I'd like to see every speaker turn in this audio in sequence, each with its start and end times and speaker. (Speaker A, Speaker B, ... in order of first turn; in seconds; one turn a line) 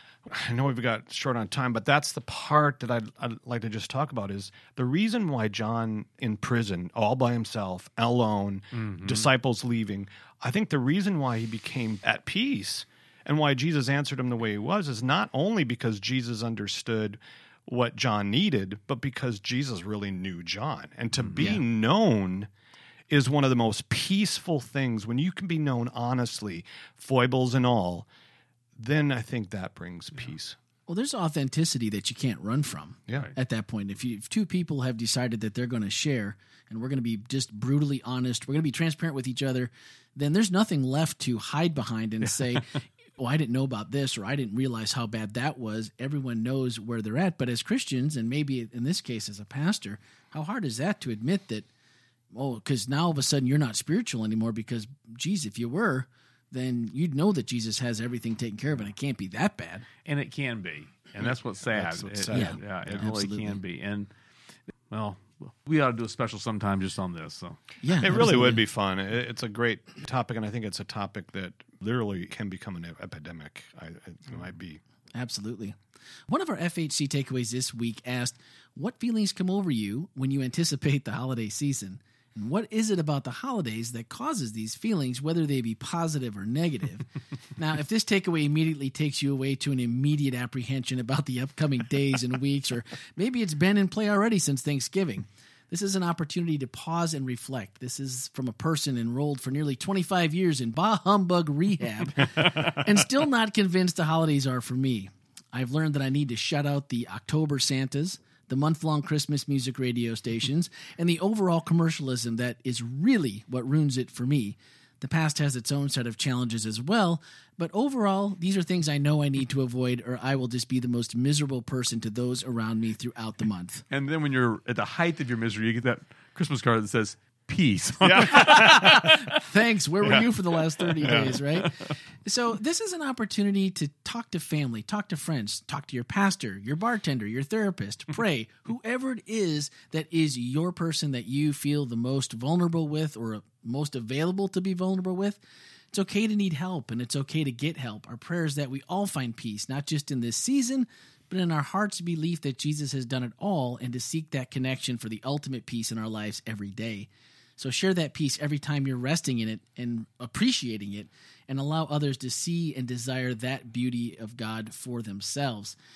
Speaker A: 0.2-22.5
Speaker B: 8.7-9.3
Speaker B: 21.2-21.5
Speaker A: 23.1-28.1
Speaker A: 28.8-30.6
Speaker C: 30.9-51.7
Speaker C: 52.3-59.9
Speaker B: 60.0-64.1
Speaker A: 61.2-63.0
Speaker C: 62.3-63.6
Speaker B: 64.9-67.6
Speaker C: 67.8-68.6
Speaker A: 68.0-74.8
Speaker C: 75.1-75.8
Speaker C: 76.3-123.8
Speaker B: 123.9-129.4
Speaker A: 128.0-129.2
Speaker C: 128.8-131.7
Speaker A: 130.0-130.3
Speaker A: 131.0-131.4
Speaker B: 131.0-131.8
Speaker C: 132.2-145.4
Speaker C: 145.9-165.8